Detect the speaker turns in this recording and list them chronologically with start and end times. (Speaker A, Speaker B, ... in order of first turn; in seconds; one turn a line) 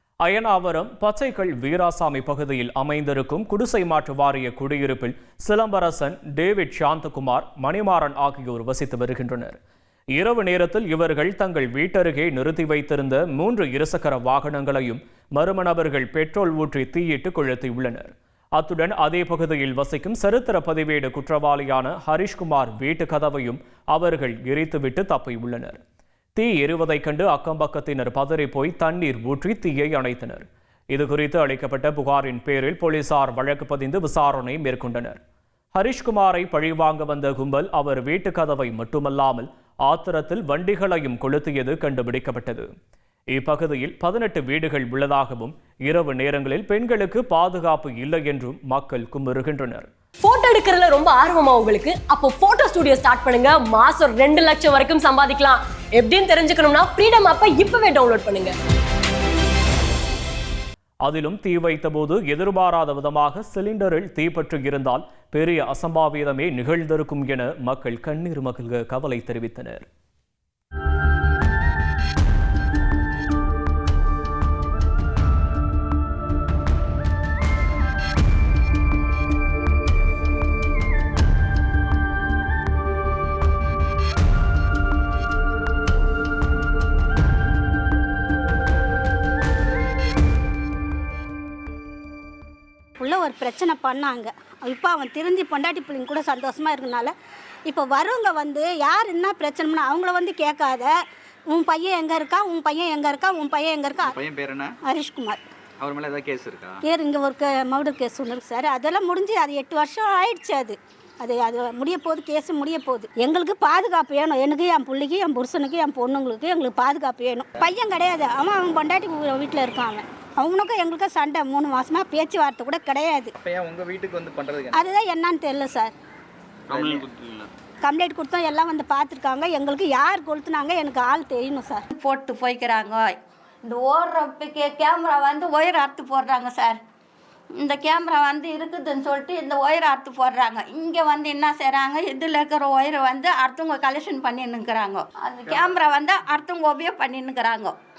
Speaker A: 0.2-9.6
Speaker A: 10.2-25.8
Speaker A: 26.4-35.2
Speaker A: 35.7-42.7
Speaker A: 43.3-49.9
Speaker B: 50.2-58.5
Speaker A: 61.0-69.8
Speaker C: 93.0-97.1
Speaker C: 97.7-100.9
Speaker C: 101.5-104.2
Speaker D: 104.0-104.7
Speaker C: 104.8-105.4
Speaker D: 105.8-106.8
Speaker C: 106.8-123.3
Speaker D: 123.4-124.8
Speaker C: 124.7-125.9
Speaker D: 126.7-127.1
Speaker C: 127.8-131.8
Speaker E: 131.9-133.1
Speaker E: 133.6-136.8
Speaker E: 137.6-147.7